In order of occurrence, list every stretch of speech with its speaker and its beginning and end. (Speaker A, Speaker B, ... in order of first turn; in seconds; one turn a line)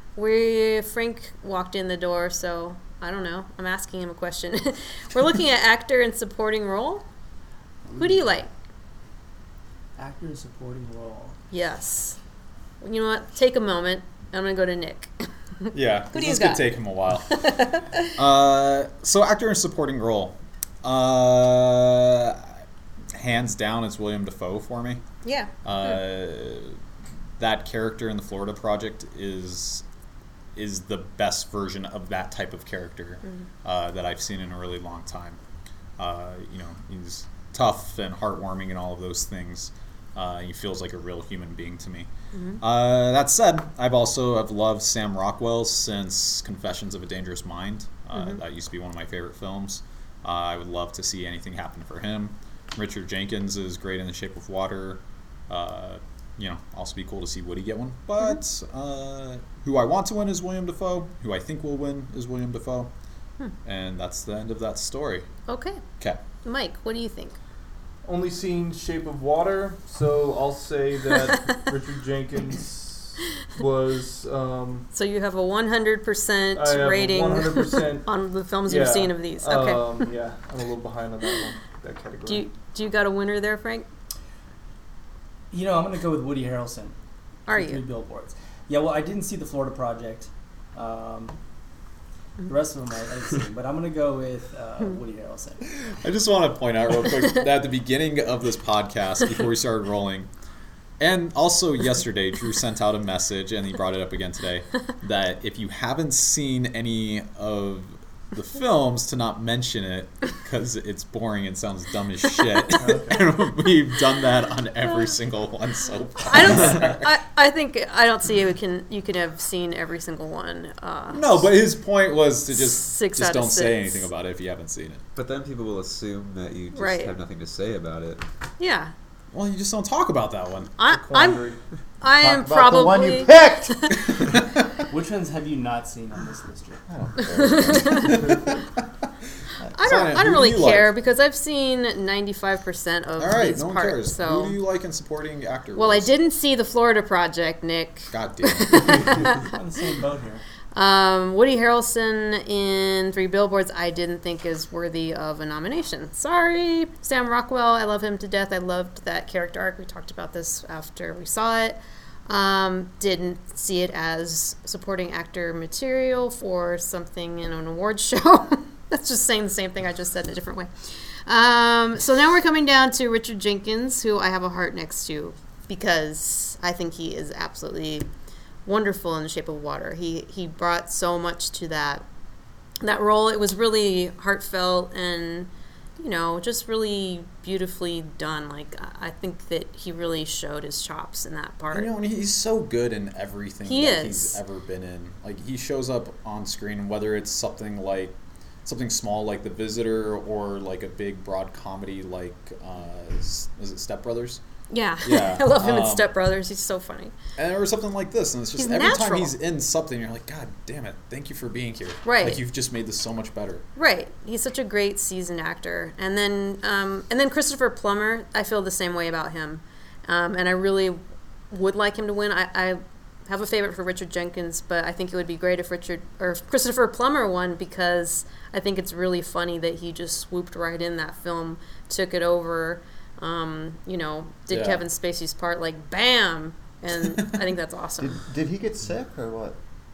Speaker A: 0.2-7.0
Speaker B: 7.8-8.3
Speaker A: 8.0-8.5
Speaker B: 10.0-11.4
Speaker A: 11.5-12.2
Speaker A: 12.8-16.6
Speaker C: 15.7-22.6
Speaker A: 17.3-18.1
Speaker C: 23.1-25.0
Speaker A: 25.2-26.0
Speaker C: 25.6-26.8
Speaker C: 27.4-29.9
Speaker C: 30.6-35.4
Speaker C: 36.0-42.1
Speaker A: 42.3-42.6
Speaker C: 42.6-62.9
Speaker A: 48.1-48.4
Speaker C: 63.6-65.3
Speaker A: 65.5-65.8
Speaker A: 66.4-67.4
Speaker D: 68.0-74.9
Speaker A: 74.9-80.1
Speaker D: 76.5-78.1
Speaker D: 78.7-82.5
Speaker A: 82.3-83.9
Speaker B: 85.5-87.0
Speaker A: 87.5-87.8
Speaker B: 87.5-91.4
Speaker B: 92.4-95.7
Speaker C: 95.8-100.3
Speaker C: 101.0-117.1
Speaker D: 112.8-113.1
Speaker A: 116.2-121.5
Speaker C: 121.1-125.0
Speaker A: 122.5-124.1
Speaker E: 125.2-128.2
Speaker A: 126.7-127.2
Speaker A: 128.6-128.9
Speaker C: 129.3-130.8
Speaker A: 130.8-131.5
Speaker D: 130.8-131.6
Speaker A: 132.0-134.2
Speaker F: 132.2-134.1
Speaker B: 134.9-136.8
Speaker F: 136.9-138.3
Speaker A: 137.2-138.3
Speaker A: 139.8-144.6
Speaker C: 139.8-140.9
Speaker C: 143.2-146.1
Speaker A: 145.8-149.5
Speaker C: 148.1-149.0
Speaker B: 149.3-150.4
Speaker A: 150.7-178.1
Speaker A: 178.7-182.1
Speaker A: 182.8-191.9
Speaker C: 191.7-204.4
Speaker A: 193.7-194.4
Speaker A: 204.7-207.1
Speaker C: 205.0-206.1
Speaker C: 207.4-213.6
Speaker A: 208.6-209.3
Speaker A: 212.0-212.4
Speaker A: 213.8-221.0
Speaker A: 221.5-238.2
Speaker C: 234.5-234.8
Speaker F: 238.0-239.6